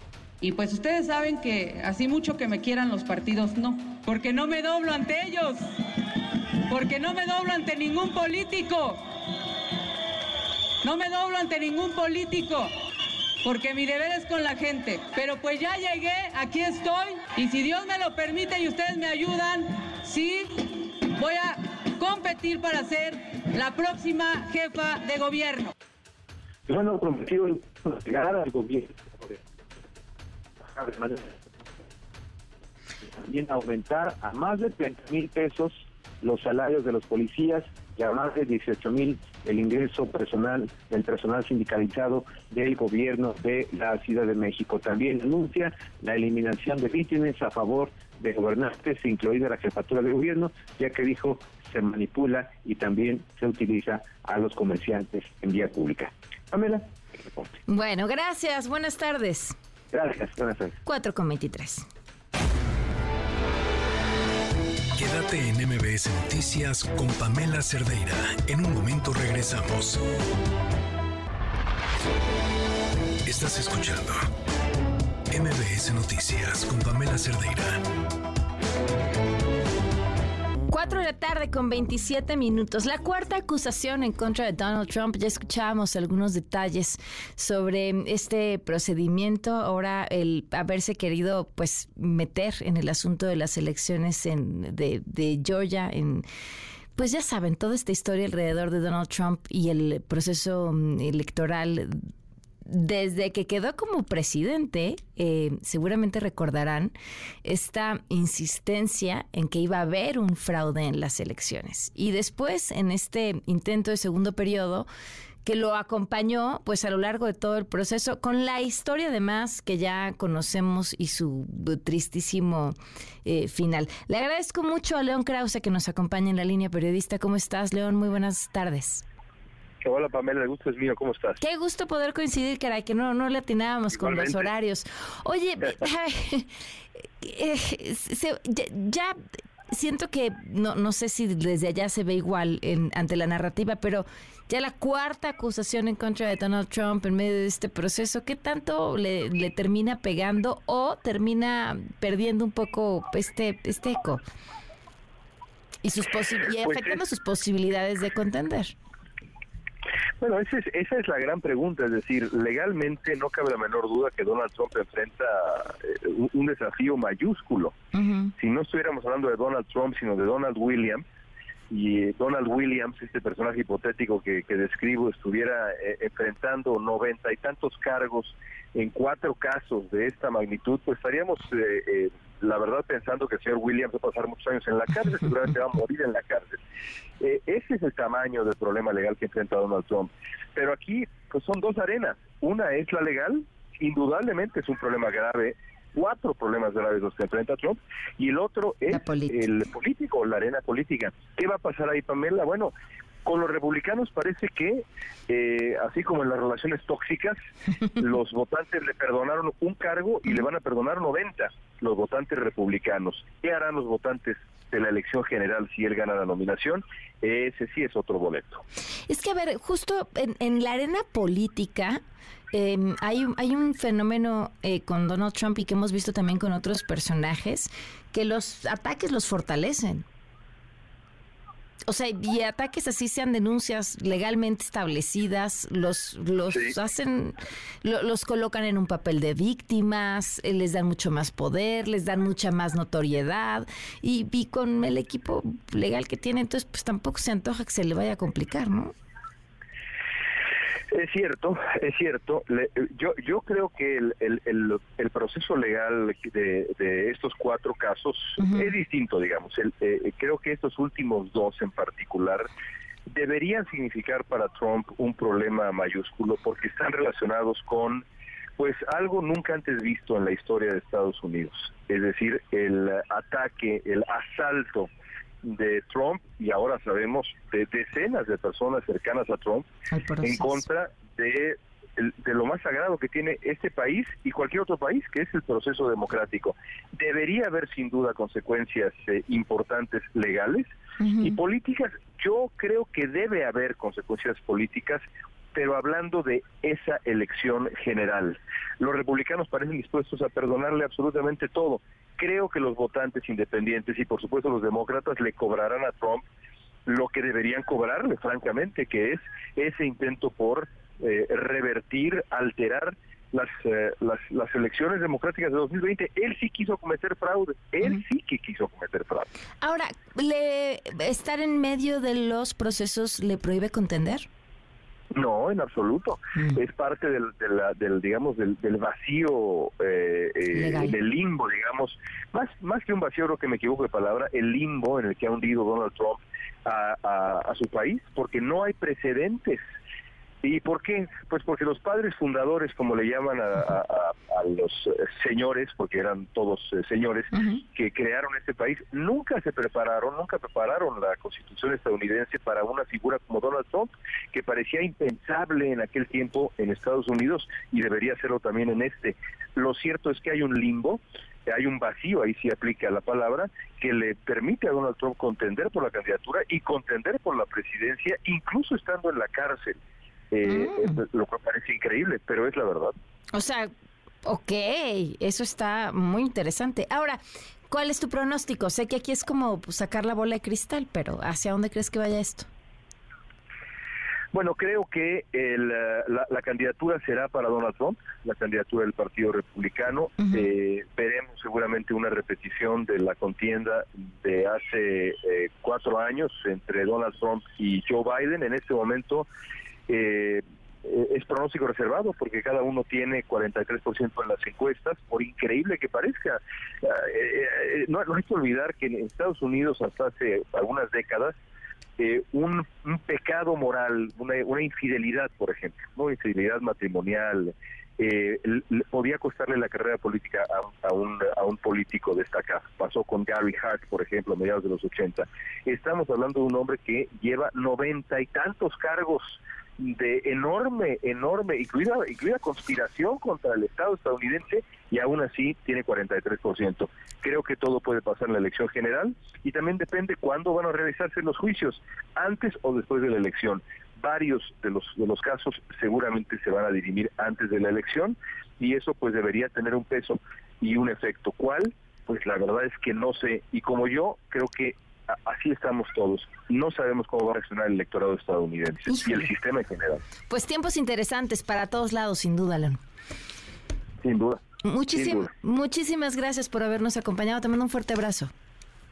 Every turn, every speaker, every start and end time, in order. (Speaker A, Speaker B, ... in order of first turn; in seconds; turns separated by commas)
Speaker A: 0.4-5.7, Speaker A: 6.7-9.0, Speaker A: 10.8-12.7, Speaker A: 13.4-25.7, Speaker B: 26.7-29.4, Speaker B: 30.7-31.4, Speaker B: 33.2-57.5, Speaker C: 57.7-59.6, Speaker B: 59.9-60.8, Speaker C: 60.9-61.9, Speaker D: 65.0-70.0, Speaker D: 73.3-74.3, Speaker D: 75.3-77.8, Speaker C: 80.7-96.2, Speaker C: 97.0-102.1, Speaker C: 102.7-106.9, Speaker C: 107.4-114.9, Speaker C: 115.4-129.0, Speaker E: 129.8-131.4, Speaker C: 131.4-136.5, Speaker E: 133.9-134.5, Speaker C: 137.2-139.2, Speaker C: 139.7-154.2, Speaker C: 155.8-158.8, Speaker E: 156.6-157.0, Speaker E: 160.2-167.8, Speaker C: 167.9-168.3, Speaker E: 168.4-171.0, Speaker E: 171.7-186.6, Speaker E: 187.2-202.7, Speaker C: 198.9-199.5, Speaker E: 203.2-207.4, Speaker E: 208.0-218.6, Speaker C: 219.1-222.0, Speaker C: 222.5-230.1, Speaker C: 231.9-248.9, Speaker E: 250.9-262.5, Speaker C: 258.4-258.7, Speaker E: 263.1-268.1, Speaker E: 268.6-274.9, Speaker E: 275.4-279.7, Speaker C: 279.9-280.7, Speaker E: 280.2-306.2, Speaker C: 291.0-291.4, Speaker E: 306.9-319.3, Speaker C: 319.6-324.3, Speaker E: 325.1-339.6, Speaker C: 330.5-331.0, Speaker E: 340.4-369.8, Speaker C: 347.3-347.6, Speaker E: 370.3-372.9, Speaker C: 370.5-371.0, Speaker C: 373.3-373.7, Speaker C: 374.2-382.5, Speaker E: 384.3-399.3, Speaker C: 390.2-390.5, Speaker E: 399.9-411.4, Speaker E: 412.0-460.0, Speaker C: 458.9-459.3, Speaker C: 460.3-462.8, Speaker E: 464.0-464.4, Speaker C: 464.6-468.3, Speaker E: 464.9-465.3